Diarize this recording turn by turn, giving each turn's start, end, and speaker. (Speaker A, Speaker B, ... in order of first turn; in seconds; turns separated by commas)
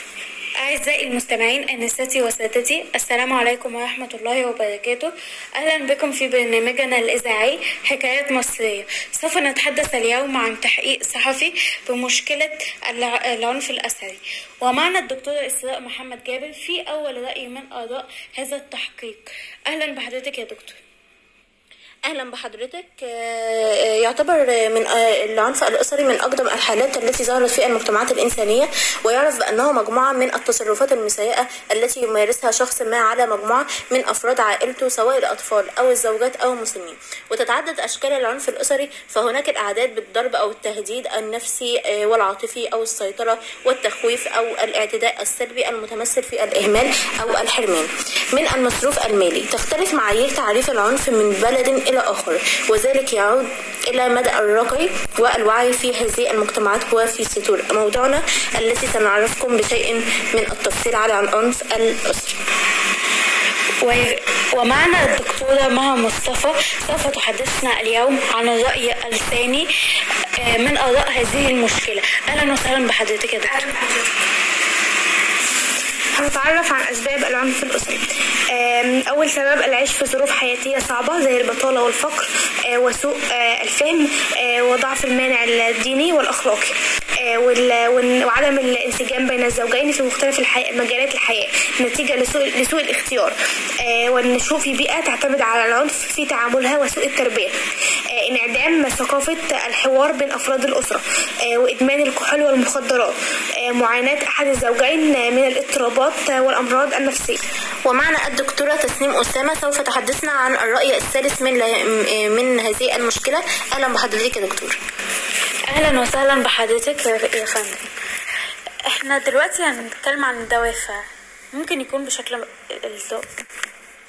Speaker A: 0.6-20.8, Speaker B: 22.1-62.4, Speaker A: 63.8-69.7, Speaker A: 70.4-73.5, Speaker C: 73.6-74.0, Speaker C: 76.1-97.5, Speaker C: 98.1-107.4, Speaker B: 107.8-114.8, Speaker A: 115.7-117.9, Speaker A: 118.8-121.0, Speaker A: 121.5-123.2